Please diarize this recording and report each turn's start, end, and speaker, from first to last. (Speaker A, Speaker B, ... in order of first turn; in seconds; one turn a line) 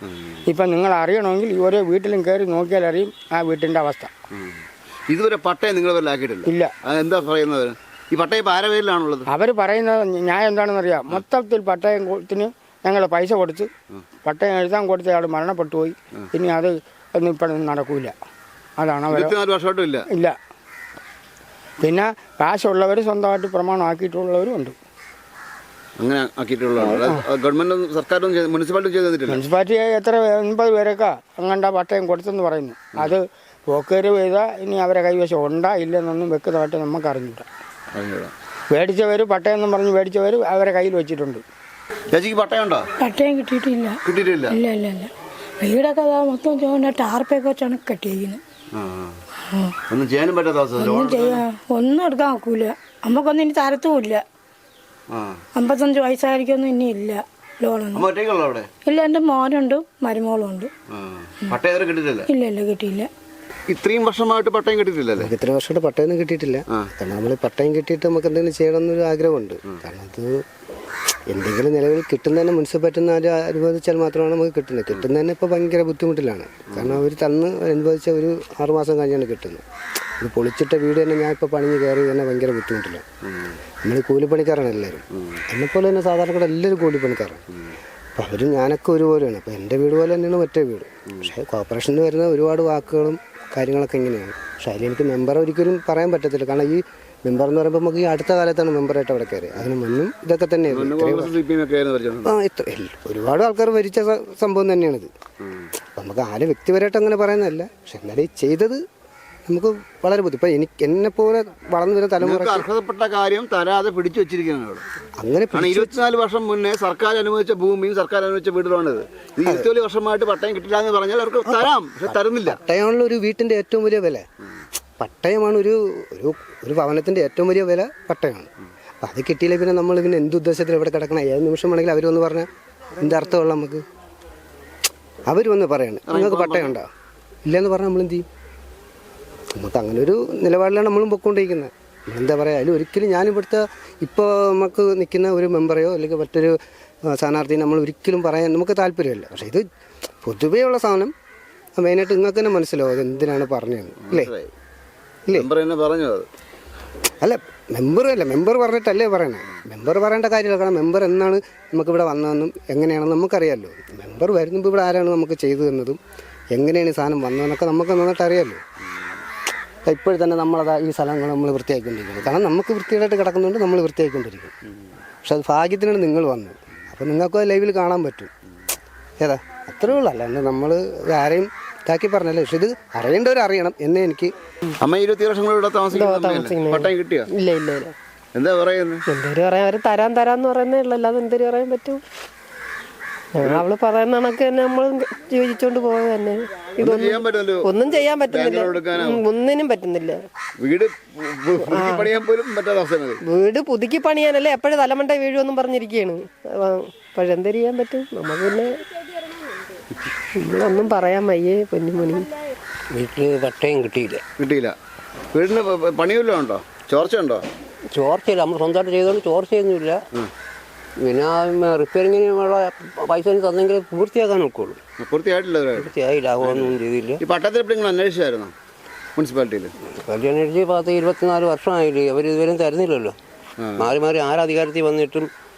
Speaker A: 0.5-4.1
Speaker B: 4.3-4.6
Speaker B: 5.1-9.3
Speaker A: 6.5-6.7
Speaker A: 9.3-13.7
Speaker A: 14.2-18.1
Speaker A: 18.8-19.3
Speaker B: 19.1-20.1
Speaker A: 20.1-20.4
Speaker A: 21.8-24.8
Speaker B: 26.0-29.4
Speaker A: 26.8-27.2
Speaker A: 29.3-37.5
Speaker B: 37.9-38.3
Speaker A: 38.7-41.4
Speaker B: 42.1-42.8
Speaker C: 43.0-44.0
Speaker B: 44.0-44.6
Speaker C: 44.5-48.4
Speaker B: 48.7-49.1
Speaker B: 49.9-51.4
Speaker C: 50.8-54.2
Speaker B: 55.1-55.4
Speaker C: 55.5-58.0
Speaker B: 57.9-58.7
Speaker C: 58.9-60.7
Speaker B: 60.9-62.3
Speaker C: 62.3-63.1
Speaker B: 63.7-65.3
Speaker D: 65.2-70.3
Speaker D: 71.3-79.6
Speaker B: 76.7-77.0
Speaker D: 80.2-83.0
Speaker D: 83.8-87.4
Speaker D: 88.2-101.3
Speaker B: 100.7-102.3
Speaker D: 102.2-105.1
Speaker B: 105.4-105.7
Speaker D: 106.0-108.8
Speaker D: 109.5-112.7
Speaker B: 112.2-114.8
Speaker D: 115.2-115.9
Speaker B: 115.5-122.6
Speaker D: 121.5-124.2
Speaker D: 125.0-128.5
Speaker D: 129.0-132.5
Speaker D: 133.0-133.8
Speaker D: 135.3-136.9
Speaker B: 136.1-136.7
Speaker D: 137.4-138.2
Speaker D: 139.5-149.6
Speaker D: 150.2-151.1
Speaker D: 151.8-154.3
Speaker B: 154.0-154.5
Speaker B: 155.3-156.3
Speaker D: 157.2-166.0
Speaker D: 166.5-168.6
Speaker D: 169.8-174.5
Speaker D: 175.2-178.3
Speaker D: 179.2-184.3
Speaker B: 184.8-187.3
Speaker E: 185.9-186.8
Speaker E: 187.4-187.9
Speaker B: 188.3-189.0
Speaker E: 189.1-192.0
Speaker E: 193.5-200.1
Speaker B: 196.8-199.2
Speaker B: 200.6-203.2
Speaker E: 203.4-208.7
Speaker E: 210.4-212.2
Speaker F: 212.9-214.2
Speaker B: 214.4-214.7
Speaker B: 215.3-217.4
Speaker F: 217.9-220.0
Speaker F: 221.0-224.8
Speaker B: 225.0-228.5
Speaker F: 225.8-227.2
Speaker B: 229.2-229.7
Speaker F: 229.9-233.2
Speaker B: 233.6-234.0
Speaker F: 233.8-235.3